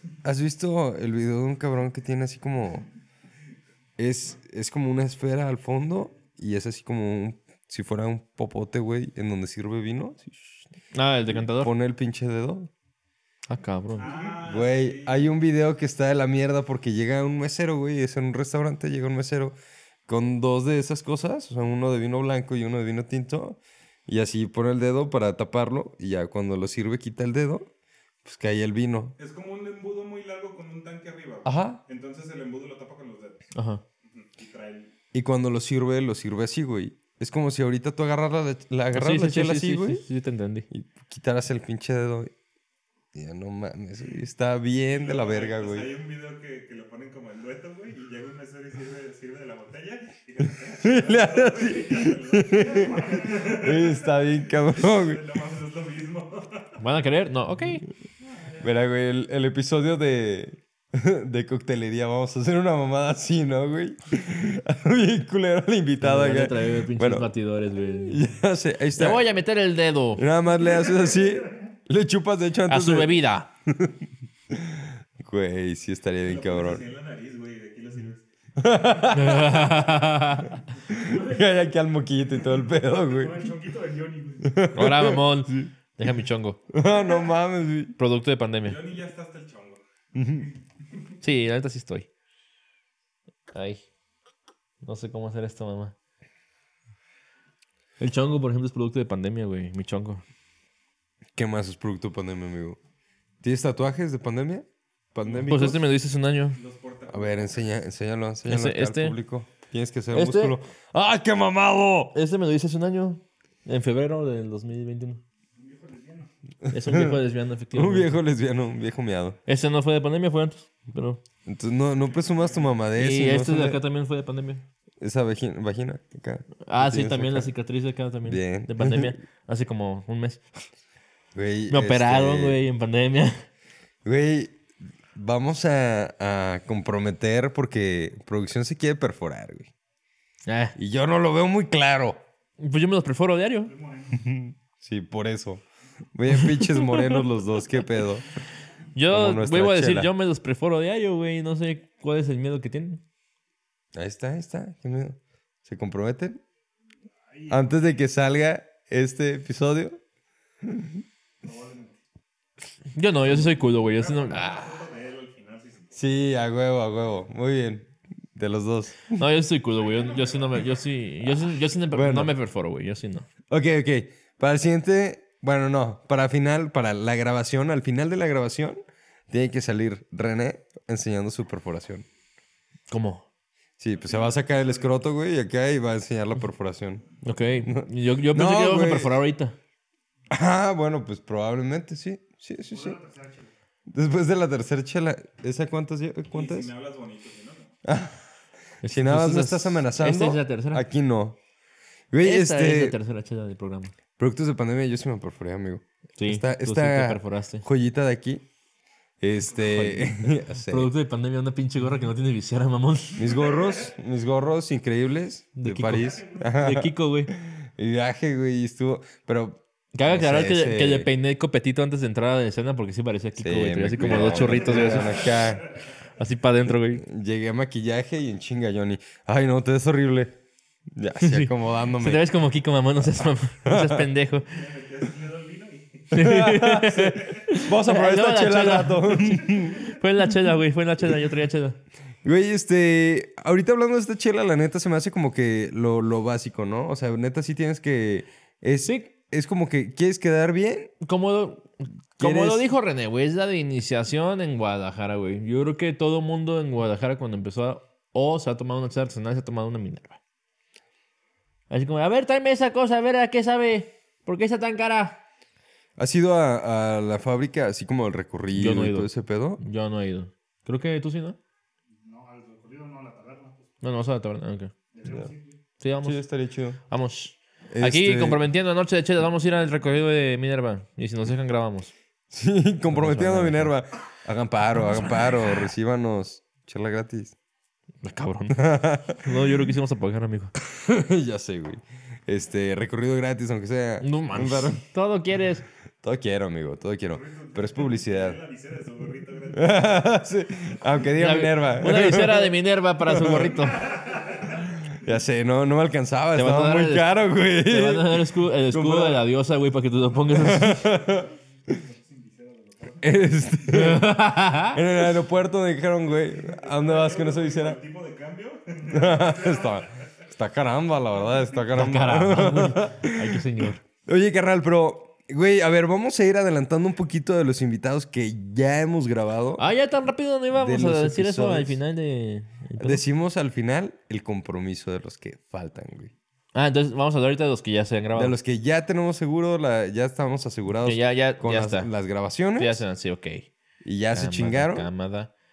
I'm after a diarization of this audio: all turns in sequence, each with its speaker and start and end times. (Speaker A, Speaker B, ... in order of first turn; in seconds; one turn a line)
Speaker A: 0.2-2.9
Speaker A: 4.0-10.7
Speaker B: 10.9-11.7
Speaker A: 11.3-12.7
Speaker B: 13.5-14.1
Speaker C: 14.0-15.3
Speaker A: 14.2-19.6
Speaker A: 20.1-27.7
Speaker A: 28.2-29.1
Speaker C: 29.2-34.9
Speaker A: 31.4-31.8
Speaker B: 33.5-33.8
Speaker A: 35.1-40.0
Speaker B: 38.9-40.7
Speaker A: 40.7-42.3
Speaker A: 43.1-45.9
Speaker C: 44.9-56.8
Speaker A: 50.4-55.2
Speaker D: 52.5-53.7
Speaker B: 56.8-57.9
Speaker A: 58.6-67.3
Speaker B: 66.0-68.2
Speaker A: 68.0-69.2
Speaker B: 69.0-70.2
Speaker A: 70.2-74.0
Speaker B: 72.7-73.5
Speaker A: 74.5-76.9
Speaker C: 76.2-78.3
Speaker A: 78.6-79.9
Speaker B: 79.1-80.6
Speaker A: 80.9-83.5
Speaker D: 80.9-81.7
Speaker D: 82.8-84.7
Speaker A: 84.4-85.7
Speaker B: 84.8-86.6
Speaker A: 86.7-88.0
Speaker B: 88.0-88.8
Speaker C: 88.6-89.8
Speaker A: 90.2-90.5
Speaker B: 91.2-92.1
Speaker B: 93.5-93.8
Speaker B: 94.8-96.0
Speaker B: 98.0-100.2
Speaker A: 101.4-102.8
Speaker A: 103.4-105.8
Speaker C: 105.2-105.7
Speaker B: 105.5-106.6
Speaker C: 106.5-107.7
Speaker A: 107.1-112.2
Speaker B: 108.5-109.2
Speaker B: 110.1-110.6
Speaker B: 112.1-115.2
Speaker D: 115.5-116.3
Speaker A: 116.7-117.2
Speaker B: 116.7-118.2
Speaker A: 117.7-119.4
Speaker B: 119.5-121.2
Speaker A: 121.5-123.8
Speaker C: 122.3-122.7
Speaker B: 123.0-124.6
Speaker A: 125.0-127.5
Speaker B: 126.7-130.4
Speaker A: 128.3-129.2
Speaker A: 131.3-132.6
Speaker B: 131.7-133.4
Speaker A: 134.0-134.6
Speaker A: 135.2-139.7
Speaker B: 140.5-140.8
Speaker A: 140.8-142.2
Speaker B: 142.6-143.7
Speaker D: 143.7-144.3
Speaker A: 144.2-145.6
Speaker A: 146.2-148.3
Speaker B: 146.3-147.2
Speaker B: 148.9-153.0
Speaker A: 149.1-150.1
Speaker A: 153.9-156.4
Speaker D: 157.3-158.0
Speaker A: 157.5-160.0
Speaker A: 160.6-161.0
Speaker D: 161.4-162.0
Speaker B: 162.9-164.5
Speaker C: 163.9-165.9
Speaker A: 165.9-169.2
Speaker B: 169.1-173.3
Speaker D: 170.1-170.6
Speaker A: 171.9-172.3
Speaker A: 173.5-182.1
Speaker B: 182.9-183.3
Speaker A: 183.8-187.1
Speaker D: 184.1-184.5
Speaker B: 187.2-189.6
Speaker A: 187.6-189.2
Speaker A: 190.3-193.0
Speaker D: 192.7-193.5
Speaker A: 193.9-196.7
Speaker C: 196.3-197.8
Speaker A: 197.8-198.2
Speaker B: 198.8-200.8
Speaker A: 198.8-201.4
Speaker A: 202.1-203.0
Speaker B: 202.2-203.9
Speaker A: 204.2-208.4
Speaker B: 206.2-207.7
Speaker A: 209.2-210.9
Speaker B: 209.6-213.3
Speaker A: 213.2-221.1
Speaker B: 215.6-217.3
Speaker D: 215.9-216.8
Speaker B: 219.9-225.4
Speaker A: 223.4-225.7
Speaker D: 224.8-225.5
Speaker B: 226.2-227.1
Speaker A: 227.0-230.3
Speaker A: 230.9-232.2
Speaker B: 231.2-234.5
Speaker A: 233.2-234.1
Speaker C: 234.5-236.1
Speaker B: 236.1-241.8
Speaker A: 236.1-239.9
Speaker C: 236.9-237.5
Speaker A: 242.2-250.9
Speaker B: 251.0-260.2
Speaker A: 252.2-252.7
Speaker B: 261.7-265.2
Speaker A: 266.0-269.6
Speaker B: 268.5-271.4
Speaker D: 272.0-273.8
Speaker B: 273.8-274.7
Speaker D: 274.9-275.6
Speaker B: 275.8-276.2
Speaker A: 276.0-276.8
Speaker B: 276.9-281.9
Speaker A: 277.7-278.4
Speaker A: 282.3-287.4
Speaker B: 282.9-283.7
Speaker B: 288.0-290.5
Speaker A: 288.5-289.2
Speaker A: 290.6-294.8
Speaker B: 294.0-295.6
Speaker A: 296.0-298.4
Speaker C: 297.1-300.1
Speaker A: 299.5-303.6
Speaker B: 301.1-304.0
Speaker D: 303.9-304.6
Speaker C: 304.1-304.5
Speaker A: 304.8-309.2
Speaker B: 306.4-307.1
Speaker B: 307.6-310.8
Speaker A: 310.3-311.8
Speaker D: 310.8-313.6
Speaker A: 313.0-317.8
Speaker B: 313.7-314.8
Speaker C: 316.4-320.0
Speaker A: 318.9-329.6
Speaker B: 321.7-323.8
Speaker B: 329.6-333.0
Speaker A: 330.5-331.8
Speaker A: 332.8-336.1
Speaker B: 336.5-338.4
Speaker A: 338.1-342.8
Speaker B: 340.8-341.9
Speaker B: 342.6-343.5
Speaker A: 343.8-344.9
Speaker B: 344.1-345.3